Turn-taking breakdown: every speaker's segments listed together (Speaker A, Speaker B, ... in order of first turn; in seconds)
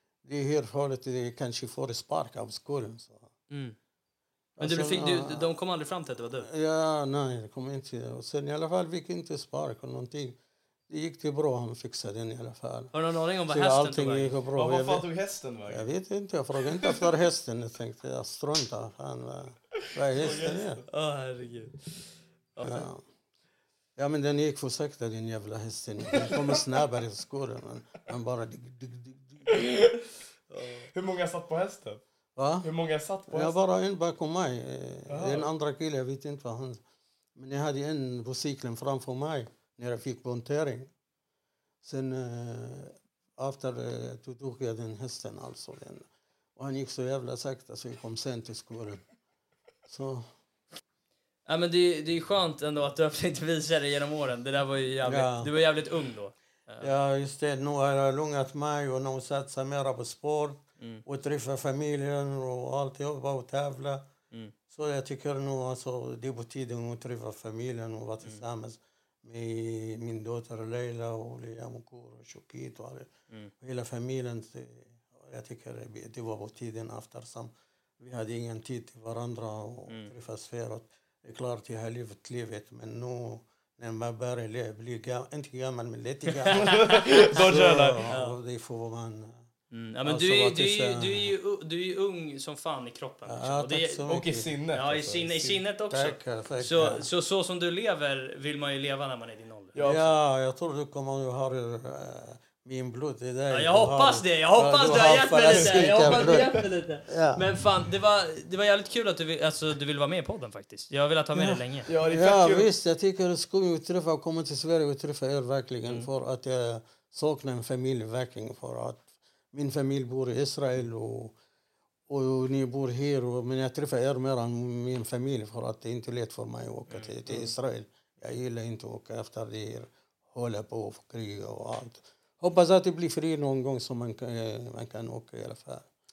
Speaker A: 0.2-3.3, 4.6-5.5, 6.4-10.4, 10.9-12.9, 13.5-15.1, 15.7-20.8, 22.6-23.1, 24.0-29.6, 32.4-32.7, 33.3-36.8, 37.4-40.9, 41.8-46.0, 46.6-49.0, 49.9-50.3, 55.0-55.5, 56.8-64.1, 64.7-73.1, 73.6-89.4, 90.0-91.3, 93.2-94.5, 95.9-97.1, 99.8-107.4, 111.3-121.3, 122.1-135.9
Speaker B: 3.5-3.8, 4.6-6.5, 12.9-14.4, 20.2-22.9, 30.5-30.9, 51.5-56.9, 86.4-87.4, 88.1-88.4, 89.7-94.1, 94.7-99.8, 103.5-111.9, 126.9-127.5
Speaker C: 14.6-15.9, 16.8-17.1, 20.1-20.8, 29.5-30.0, 30.9-32.0, 32.6-33.6, 35.1-35.5, 86.5-88.1, 94.1-95.5, 99.8-100.1, 105.5-106.2, 111.9-112.7